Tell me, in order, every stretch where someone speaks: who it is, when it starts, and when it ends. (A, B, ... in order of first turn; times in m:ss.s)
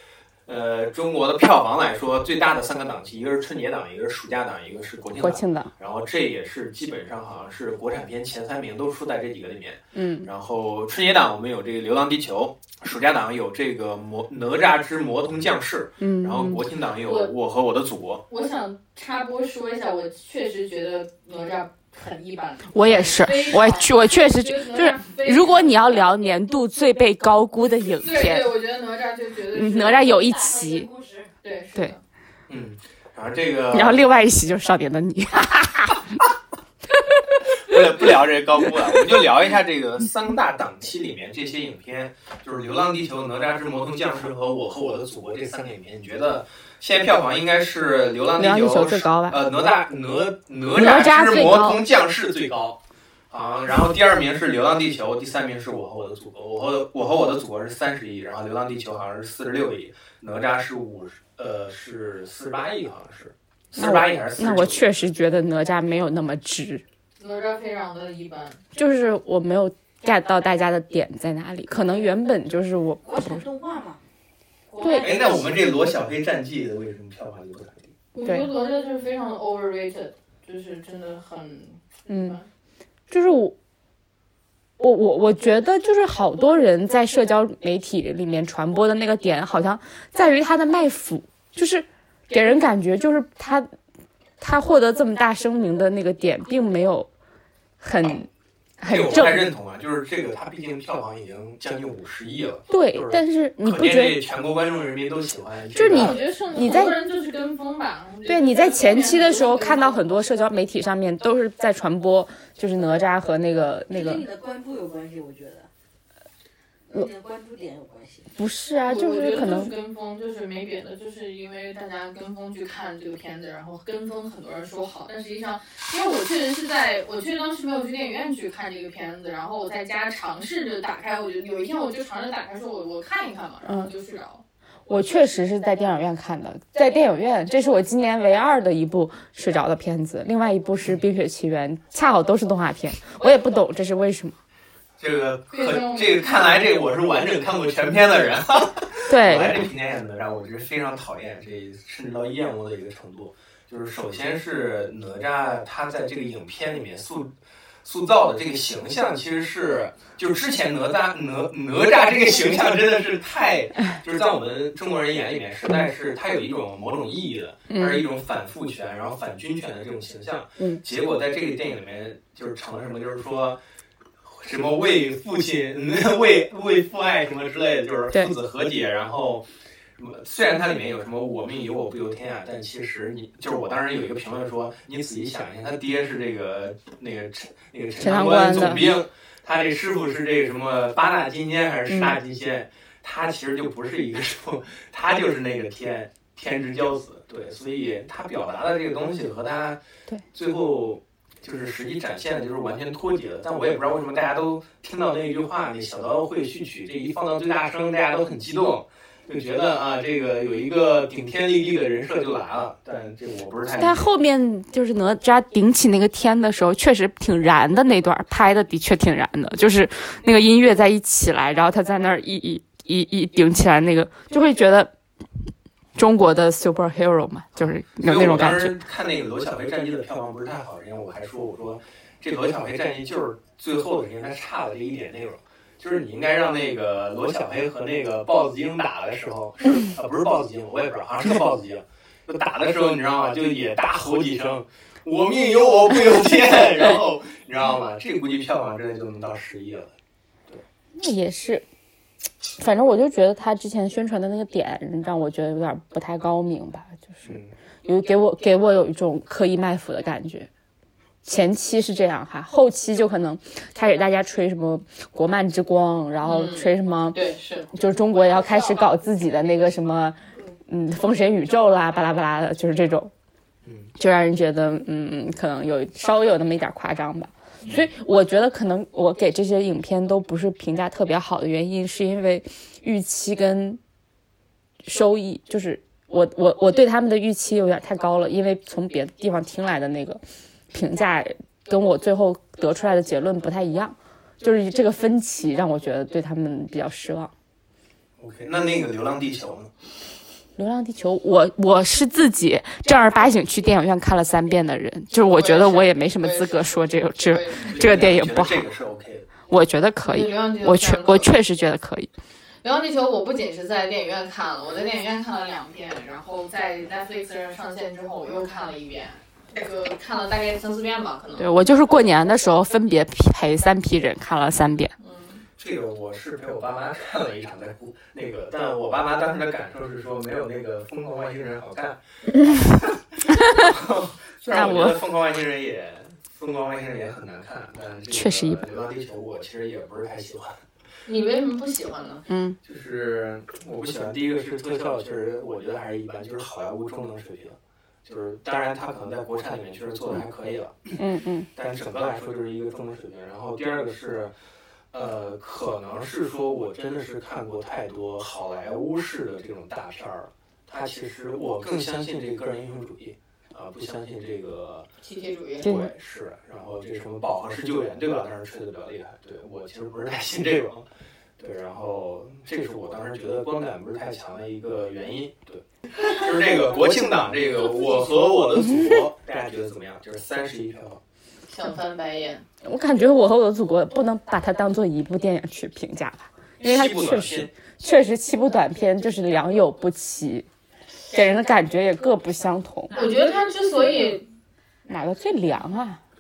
0:00.5-0:18.2 A
0:05.2-0:05.7 B
0:09.9-0:10.3 B
0:16.0-0:16.6 B
0:17.0-0:17.3 C
0:18.3-0:26.0 C
0:22.7-0:28.5 B
0:28.0-0:30.1 C
0:29.5-0:30.9 B
0:30.0-0:31.3 D
0:31.4-0:32.0 C
0:32.5-0:34.0 A
0:33.7-0:36.1 B
0:37.6-0:52.8 A
0:48.4-0:49.4 B
0:50.7-0:51.8 B
0:53.3-1:04.8 A
1:03.8-1:06.8 B
1:07.2-1:08.6 C
1:08.7-1:13.4 B
1:13.0-1:14.0 D
1:14.7-1:15.4 D
1:14.8-1:15.4 B
1:15.0-1:17.9 A
1:18.1-1:22.4 C
1:22.1-1:22.4 B
1:23.1-1:23.6 B
1:24.8-1:33.7 B
1:34.4-1:37.1 B
1:37.8-1:38.3 B
1:38.8-1:39.4 B
1:38.8-1:46.2 A
1:42.7-1:44.2 B
1:45.8-1:47.0 B
1:45.8-1:50.1 C
1:48.3-1:54.2 B
1:53.9-1:55.7 D
1:56.9-1:58.3 D
1:58.4-1:59.7 B
1:58.8-2:14.4 C
2:13.6-2:13.9 B
2:14.9-2:24.4 B
2:25.0-2:37.3 A
2:25.5-2:26.2 C
2:29.1-2:29.7 B
2:37.8-2:53.6 A
2:47.7-2:48.0 B
2:54.2-2:59.5 A
3:00.0-3:19.8 A
3:08.0-3:08.9 B
3:11.9-3:12.2 B
3:20.3-3:34.1 A
3:33.7-3:44.9 B
3:46.0-3:48.8 B
3:47.9-4:09.9 A
4:11.0-4:11.6 B
4:12.6-4:20.5 B
4:17.2-4:17.5 A
4:21.2-4:27.2 B
4:26.2-4:27.7 C
4:27.7-4:33.1 B
4:33.6-4:33.9 A
4:34.0-4:43.8 B
4:44.8-4:57.3 B
4:58.2-4:59.7 A
5:00.6-5:08.7 B
5:05.2-5:07.8 C
5:07.6-5:09.3 A
5:09.5-5:12.1 B
5:10.0-5:11.3 C
5:12.6-5:21.8 C
5:21.4-5:24.9 B
5:25.0-5:25.4 C
5:25.6-5:40.6 A
5:34.5-5:35.0 B
5:38.1-5:38.6 B
5:41.1-5:42.2 C
5:42.3-5:42.6 B
5:42.6-5:51.0 A
5:51.0-5:51.5 B
5:51.5-5:54.3 A
5:54.9-6:04.9 A
6:05.0-6:05.8 C
6:05.6-6:10.9 A
6:05.6-6:05.9 B
6:11.4-6:21.0 A
6:21.5-6:22.5 C
6:22.6-6:30.5 B
6:26.6-6:27.5 A
6:31.1-6:33.1 B
6:32.9-6:34.3 C
6:34.9-6:36.0 B